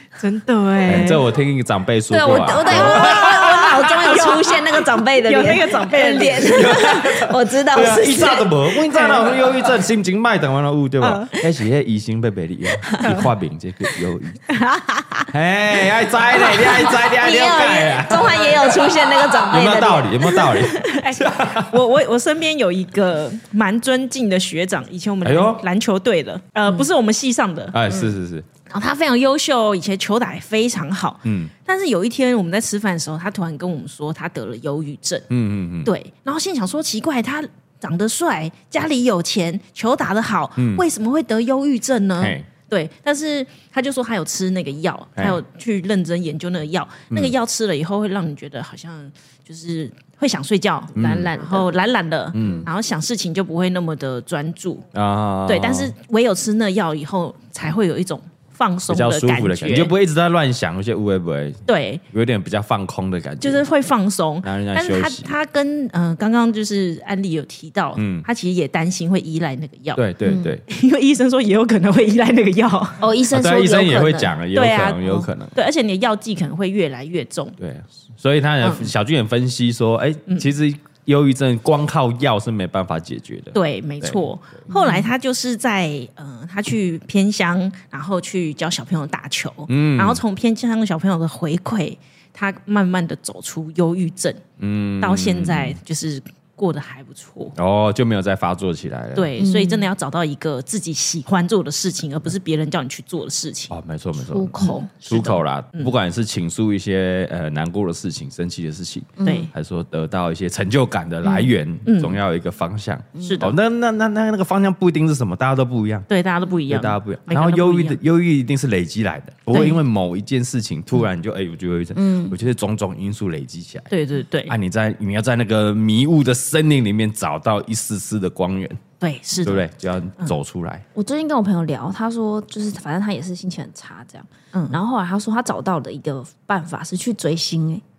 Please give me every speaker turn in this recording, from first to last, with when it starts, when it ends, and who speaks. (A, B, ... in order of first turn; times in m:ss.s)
0:00.2-0:01.2 A
0:00.8-0:03.4 B
0:02.1-0:09.2 C
0:02.6-0:07.0 A
0:06.4-0:14.4 B
0:11.0-0:11.4 A
0:12.9-0:13.2 A
0:14.5-0:15.3 A
0:15.3-0:18.8 B
0:16.4-0:20.6 C
0:18.1-0:18.9 A
0:19.4-0:21.8 B
0:20.7-0:27.8 A
0:25.2-0:25.6 B
0:27.7-0:28.4 B
0:28.7-0:35.3 A
0:31.2-0:31.5 B
0:35.3-0:35.9 B
0:35.8-0:54.8 A
0:40.6-0:40.8 B
0:42.2-0:42.5 B
0:50.9-0:51.3 B
0:50.9-0:51.7 C
0:52.3-0:52.7 B
0:54.9-0:55.9 B
0:55.4-0:59.9 A
0:58.9-1:03.6 B
1:01.6-1:02.0 A
1:03.4-1:10.0 A
1:04.4-1:05.3 B
1:08.0-1:08.3 B
1:09.9-1:10.6 B
1:10.2-1:10.6 C
1:10.7-1:13.0 A
1:13.0-1:14.3 C
1:13.3-1:15.5 B
1:14.5-1:17.6 A
1:17.6-1:24.2 B
1:18.6-1:18.9 A
1:23.5-1:34.4 A
1:24.7-1:25.0 C
1:29.7-1:30.2 B
1:34.6-1:35.8 B
1:35.0-1:37.6 A
1:37.6-1:39.3 B
1:39.1-1:43.7 A
1:39.4-1:39.9 C
1:43.7-1:56.0 B
1:44.2-1:44.9 C
1:44.6-1:45.9 A
1:49.2-1:49.5 C
1:49.2-1:49.5 A
1:51.2-1:52.2 A
1:53.2-1:53.4 C
1:53.2-1:53.5 A
1:56.1-1:58.0 A
1:56.7-2:03.9 B
2:01.9-2:02.3 C
2:03.9-2:04.5 A
2:04.5-2:08.8 B
2:09.0-2:09.6 A
2:09.4-2:10.8 B
2:10.9-2:17.8 C
2:14.5-2:14.8 A